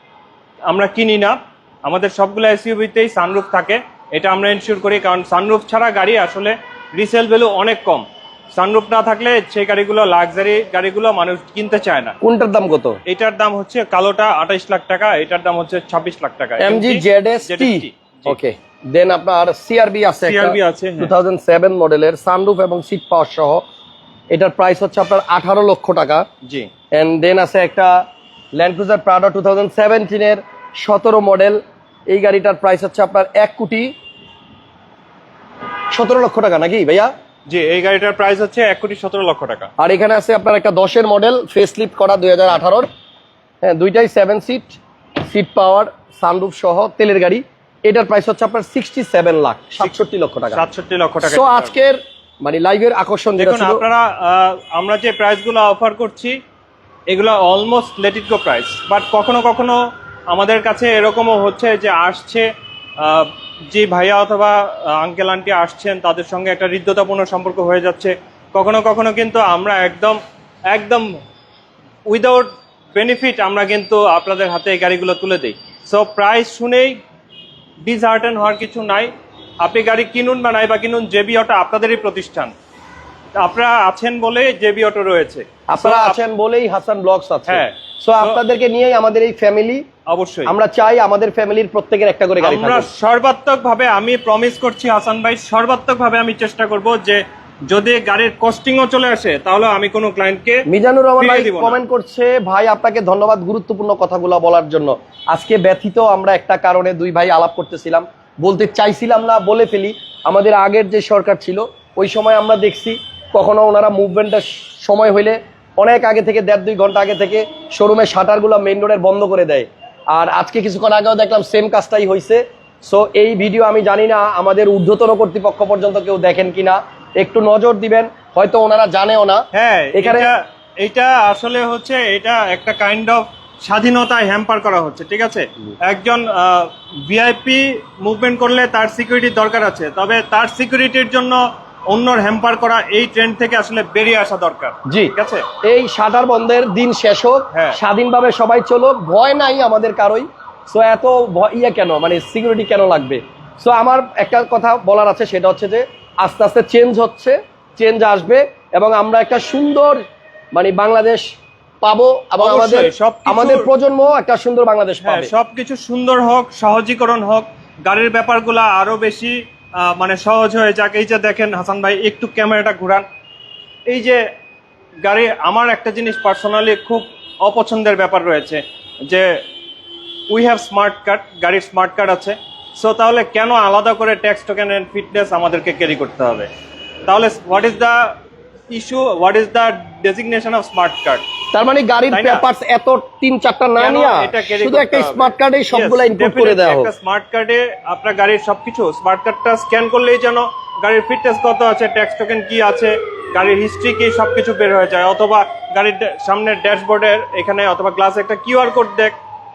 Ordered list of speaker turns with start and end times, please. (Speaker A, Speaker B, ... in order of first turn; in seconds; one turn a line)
Speaker A: 0.7-12.2
Speaker B: 12.2-13.0
Speaker A: 13.1-18.4
Speaker B: 16.6-23.6
Speaker A: 20.2-21.1
Speaker B: 24.3-26.2
Speaker A: 26.4-26.7
Speaker B: 26.9-33.9
Speaker B: 35.9-37.1
Speaker A: 37.5-39.7
Speaker B: 39.8-42.9
Speaker B: 43.6-50.6
Speaker A: 50.5-51.7
Speaker B: 51.2-53.8
Speaker A: 53.4-56.4
Speaker A: 57.1-62.5
Speaker A: 63.0-71.1
Speaker A: 72.1-77.0
Speaker A: 77.8-79.1
Speaker A: 79.6-82.5
Speaker A: 83.4-86.2
Speaker B: 85.7-89.8
Speaker A: 87.5-88.4
Speaker A: 90.1-90.5
Speaker B: 90.5-92.9
Speaker A: 92.4-100.6
Speaker B: 100.7-130.3
Speaker A: 101.2-101.8
Speaker A: 129.5-145.4
Speaker B: 144.9-165.3
Speaker A: 162.4-163.7
Speaker A: 165.0-173.1
Speaker A: 173.9-174.2
Speaker A: 175.0-179.3
Speaker A: 180.3-186.5
Speaker A: 187.1-188.2
Speaker A: 188.7-191.2
Speaker B: 191.5-196.9
Speaker A: 192.1-192.4
Speaker A: 193.8-209.1